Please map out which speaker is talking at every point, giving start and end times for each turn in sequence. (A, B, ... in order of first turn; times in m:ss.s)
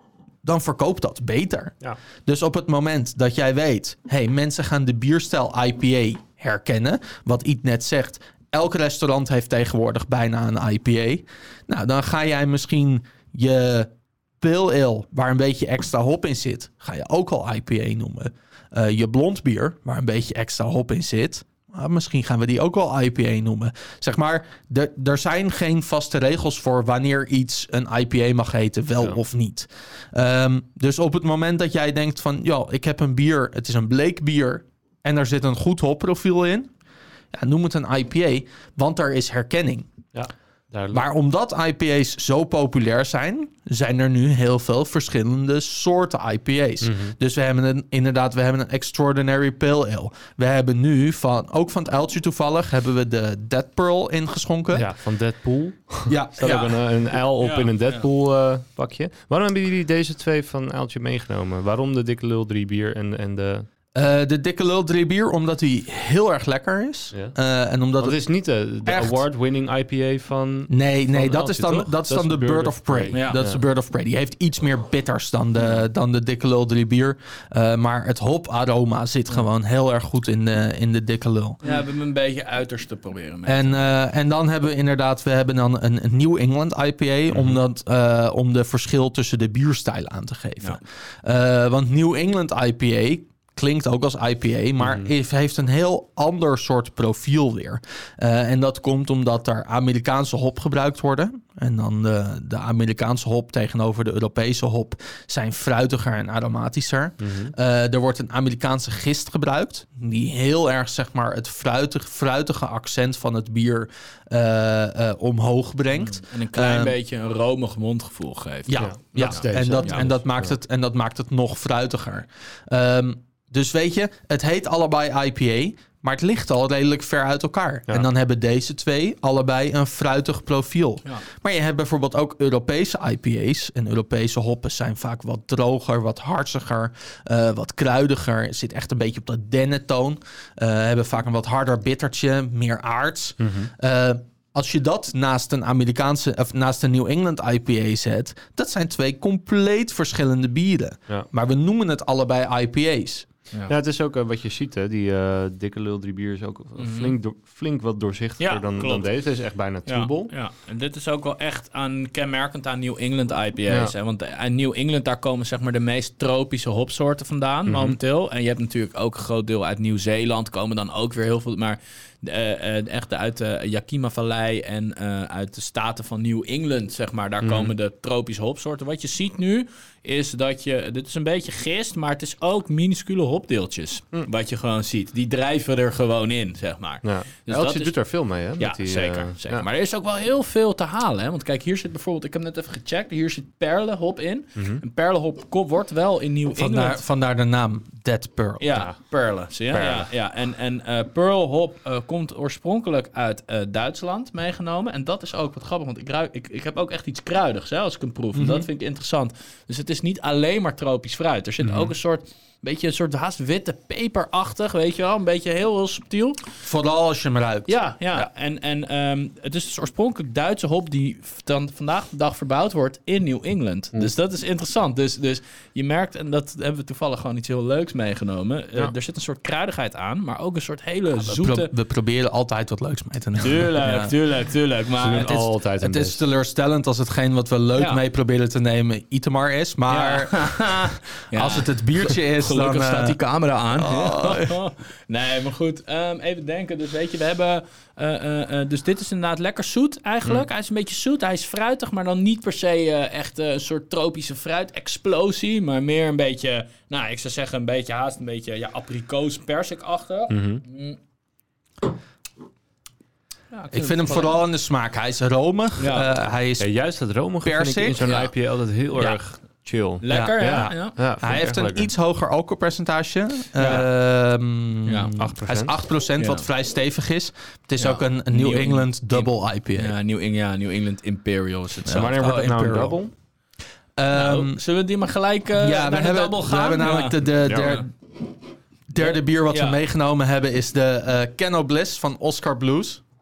0:00.4-0:36.7 A
0:37.3-0:39.9 A
0:40.1-0:41.0 B
0:40.9-0:54.9 A
0:46.8-0:47.1 B
0:54.7-1:03.7 B
0:56.1-0:56.7 A
0:56.4-0:56.7 C
0:57.4-0:58.1 C
1:03.9-1:08.2 A
1:08.0-1:13.6 B
1:08.8-1:09.2 A
1:10.7-1:21.6 A
1:13.1-1:13.4 C
1:21.6-1:23.9 C
1:23.4-1:57.0 A
1:27.3-1:27.6 B
1:34.8-1:35.1 B
1:47.2-1:47.5 B
1:56.0-2:00.0 C
1:58.7-2:33.3 A
1:58.8-2:00.6 B
2:23.4-2:23.7 B
2:33.7-2:40.3 B
2:36.8-2:37.1 C
2:38.4-2:39.2 C
2:39.8-3:08.0 C
2:47.7-2:48.0 B
2:57.4-2:57.7 B
3:07.0-3:09.6 B
3:08.6-3:17.0 C
3:14.6-3:14.8 B
3:16.5-3:18.6 A
3:18.6-3:36.4 C
3:19.7-3:20.1 B
3:28.3-3:28.7 A
3:31.6-3:31.9 B
3:36.6-3:38.3 A
3:37.7-3:51.7 C
3:51.2-3:54.1 A
3:53.4-3:55.4 C
3:55.0-3:56.2 B
3:55.1-4:03.2 A
3:59.9-4:21.0 C
4:03.7-4:04.6 A
4:20.3-4:20.6 B
4:23.5-4:24.4 C
4:23.7-4:26.7 A
4:25.8-4:26.1 C
4:26.6-4:31.9 B
4:27.4-4:28.1 A
4:28.0-4:28.3 C
4:30.0-4:31.0 C
4:30.1-4:40.0 A
4:33.6-4:33.8 C
4:34.9-4:35.2 C
4:35.2-4:35.7 B
4:36.2-4:36.4 C
4:37.8-4:42.3 C
4:41.9-4:43.1 B
4:41.9-4:43.0 A
4:44.0-4:44.6 A
4:44.1-4:47.8 C
4:45.6-4:47.9 A
4:47.4-4:47.8 B
4:48.9-4:53.0 A
4:49.0-4:49.8 C